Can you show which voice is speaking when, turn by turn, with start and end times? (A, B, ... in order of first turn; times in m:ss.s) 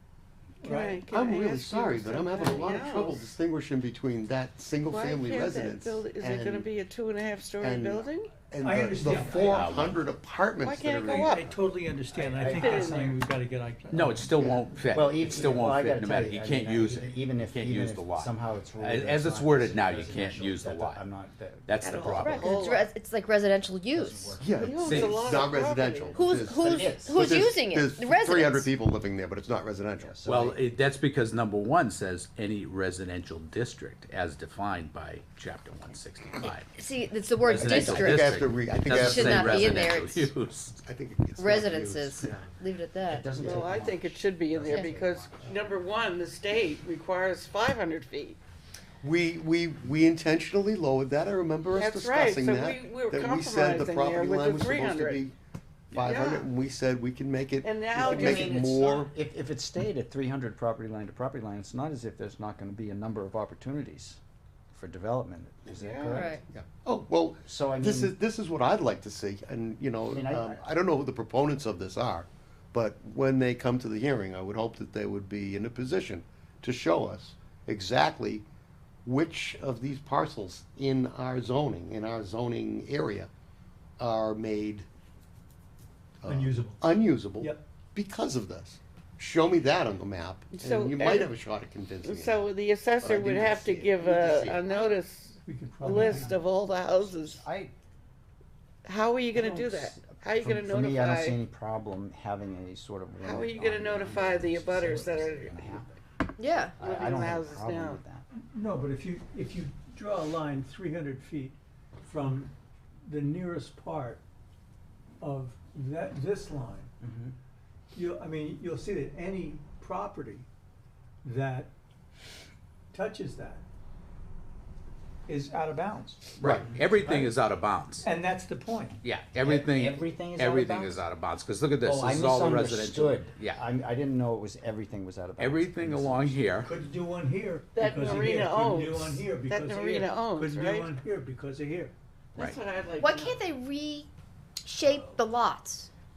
0:00.6-0:01.0 A
0:00.6-0:03.3 B
0:01.1-0:06.7 C
0:04.9-0:08.3 B
0:07.6-0:11.6 C
0:08.6-0:09.6 A
0:09.4-0:10.0 D
0:10.6-0:11.5 B
0:11.1-0:14.3 A
0:12.2-0:13.2 B
0:12.3-0:13.0 E
0:13.9-0:21.0 D
0:14.4-0:14.6 C
0:14.9-0:22.5 E
0:21.6-0:22.6 D
0:21.8-0:22.9 B
0:22.0-0:24.4 F
0:23.9-0:24.8 E
0:24.4-0:30.1 C
0:24.5-0:26.3 B
0:24.7-0:25.5 D
0:26.1-0:28.7 F
0:26.5-0:27.2 E
0:30.0-0:30.6 E
0:30.2-0:36.7 D
0:36.7-0:38.3 F
0:37.4-0:40.8 D
0:37.6-0:39.7 C
0:38.9-0:40.3 F
0:40.8-0:42.4 C
0:41.4-0:43.4 F
0:43.0-0:45.8 E
0:43.4-0:48.4 B
0:44.6-0:44.9 F
0:49.0-0:55.3 C
0:51.7-0:55.2 B
0:55.9-0:59.1 C
0:56.0-0:56.5 B
0:57.6-0:58.7 B
0:58.0-1:04.2 E
1:04.7-1:06.4 E
1:05.7-1:06.3 B
1:06.1-1:06.4 F
1:06.4-1:18.4 C
1:07.4-1:08.2 E
1:10.1-1:10.6 E
1:19.0-1:23.3 C
1:24.0-1:24.9 C
1:26.2-1:32.5 C
1:26.2-1:27.6 A
1:30.5-1:31.3 B
1:32.0-1:37.4 B
1:33.0-1:34.6 C
1:34.0-1:34.9 E
1:35.4-1:36.4 A
1:37.1-1:37.7 E
1:38.8-1:41.4 B
1:39.3-1:48.2 E
1:43.2-1:45.8 B
1:46.4-1:46.7 F
1:46.8-1:48.0 B
1:48.3-1:52.5 A
1:53.0-1:54.2 A
1:55.2-1:56.9 A
1:57.0-1:57.4 E
1:57.9-2:00.4 A
2:01.2-2:01.7 A
2:02.9-2:03.6 A
2:05.3-2:06.4 A
2:06.4-2:08.1 D
2:06.9-2:07.3 A
2:08.0-2:09.0 A
2:09.0-2:13.6 D
2:09.4-2:11.0 E
2:11.8-2:16.4 E
2:15.4-2:16.7 D
2:16.6-2:21.9 A
2:17.7-2:21.0 B
2:22.3-2:23.4 B
2:22.4-2:24.1 F
2:24.6-2:25.9 F